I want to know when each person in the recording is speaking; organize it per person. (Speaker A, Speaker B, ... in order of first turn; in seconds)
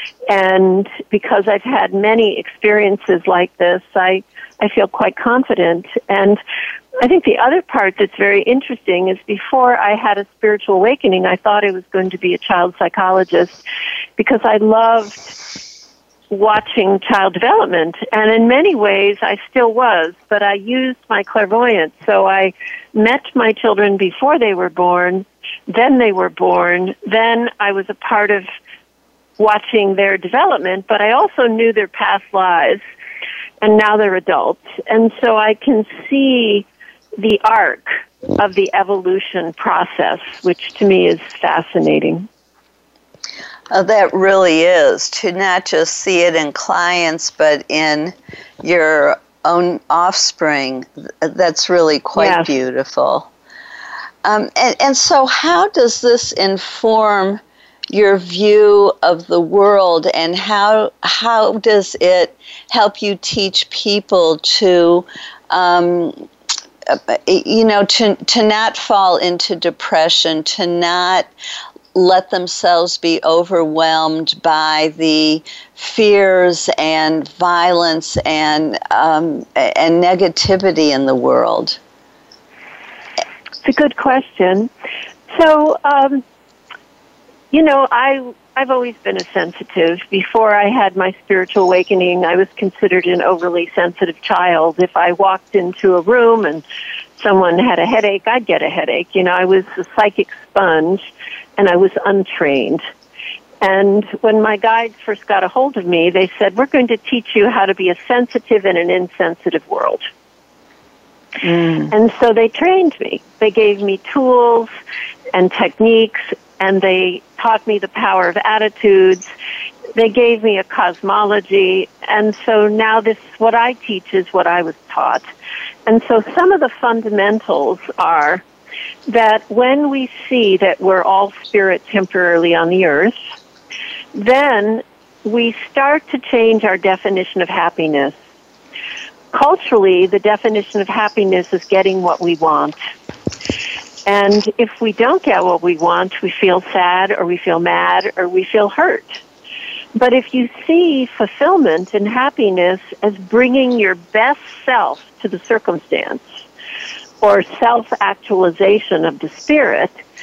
Speaker A: 0.3-6.4, 7.0-13.6, 14.2-15.3, 16.3-28.5, 29.4-32.8, 33.6-36.6, 37.2-42.3, 52.1-52.5, 83.6-84.7, 85.3-86.2, 87.5-96.6, 97.2-101.0, 101.6-102.8, 103.6-110.1, 111.9-114.7, 115.3-119.3, 119.9-125.3, 125.9-128.4, 129.1-133.2, 134.1-138.2, 139.3-142.8, 144.1-149.2, 149.9-156.4, 157.2-159.9
Speaker B: 43.7-53.3, 54.2-57.4, 57.9-66.2, 66.9-71.3, 71.9-81.8, 111.4-111.9